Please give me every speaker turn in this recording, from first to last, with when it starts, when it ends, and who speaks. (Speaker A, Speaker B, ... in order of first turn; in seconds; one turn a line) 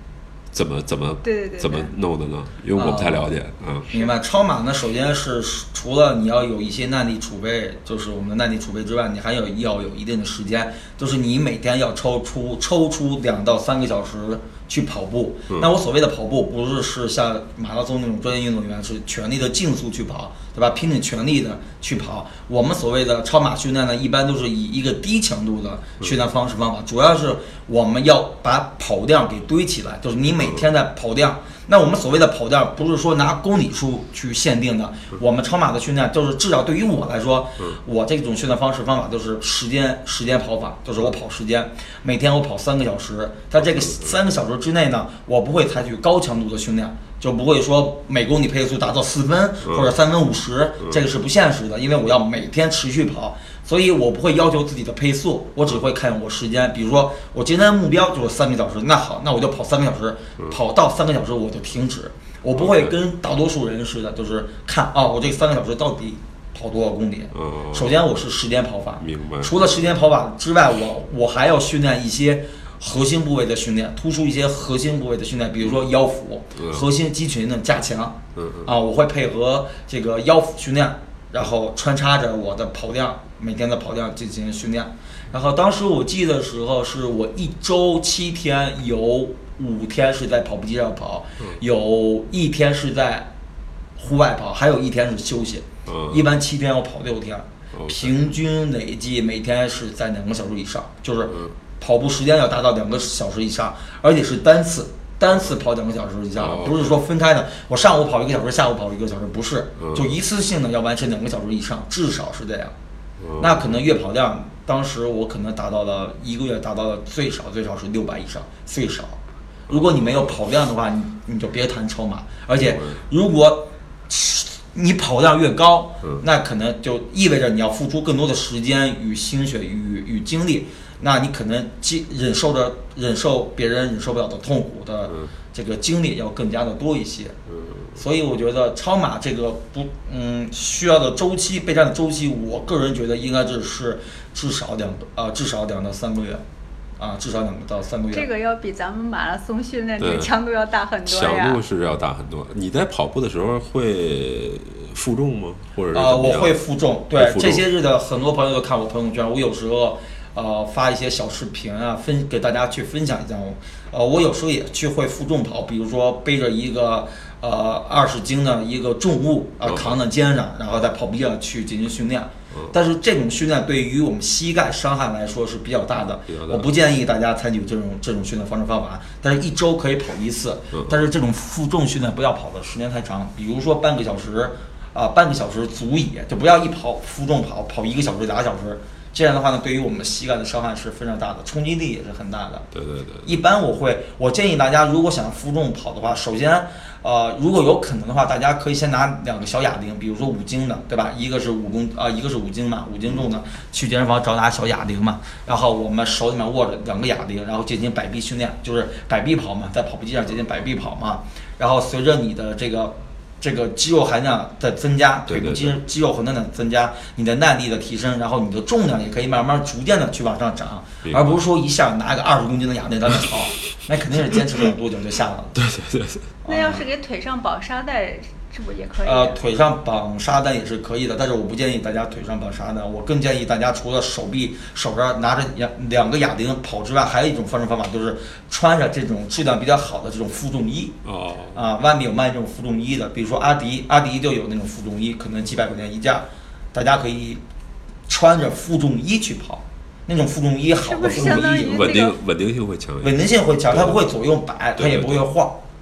Speaker A: 0.5-3.9
Speaker B: 1.2-1.9
Speaker C: 2.7-3.3
Speaker C: 3.9-93.3
Speaker A: 43.7-44.1
Speaker A: 49.6-49.9
Speaker A: 62.5-62.9
Speaker A: 67.3-67.9
Speaker A: 69.0-69.8
Speaker A: 76.6-76.8
Speaker A: 78.3-78.7
Speaker C: 94.0-112.7
Speaker A: 95.8-96.2
Speaker A: 97.7-98.2
Speaker A: 106.4-107.0
Speaker A: 109.8-110.1
Speaker A: 113.2-113.8
Speaker C: 113.4-119.2
Speaker A: 119.7-120.4
Speaker C: 119.7-137.3
Speaker A: 122.6-123.0
Speaker A: 137.5-137.9
Speaker C: 137.9-146.4
Speaker C: 147.0-148.3
Speaker B: 148.1-151.6
Speaker A: 150.0-150.3
Speaker A: 151.1-156.6
Speaker C: 155.9-192.7
Speaker A: 157.1-157.7
Speaker A: 169.6-170.0
Speaker A: 176.3-176.7
Speaker A: 180.7-181.0
Speaker A: 192.7-193.3
Speaker C: 193.2-225.6
Speaker A: 215.3-215.8
Speaker A: 221.0-221.4
Speaker A: 225.6-226.2
Speaker C: 226.4-226.8
Speaker B: 226.5-229.4
Speaker C: 229.0-241.0
Speaker A: 241.0-241.6
Speaker C: 241.5-247.4
Speaker C: 248.1-252.1
Speaker B: 250.8-252.2
Speaker A: 251.1-254.0
Speaker C: 253.0-255.6
Speaker A: 254.8-255.3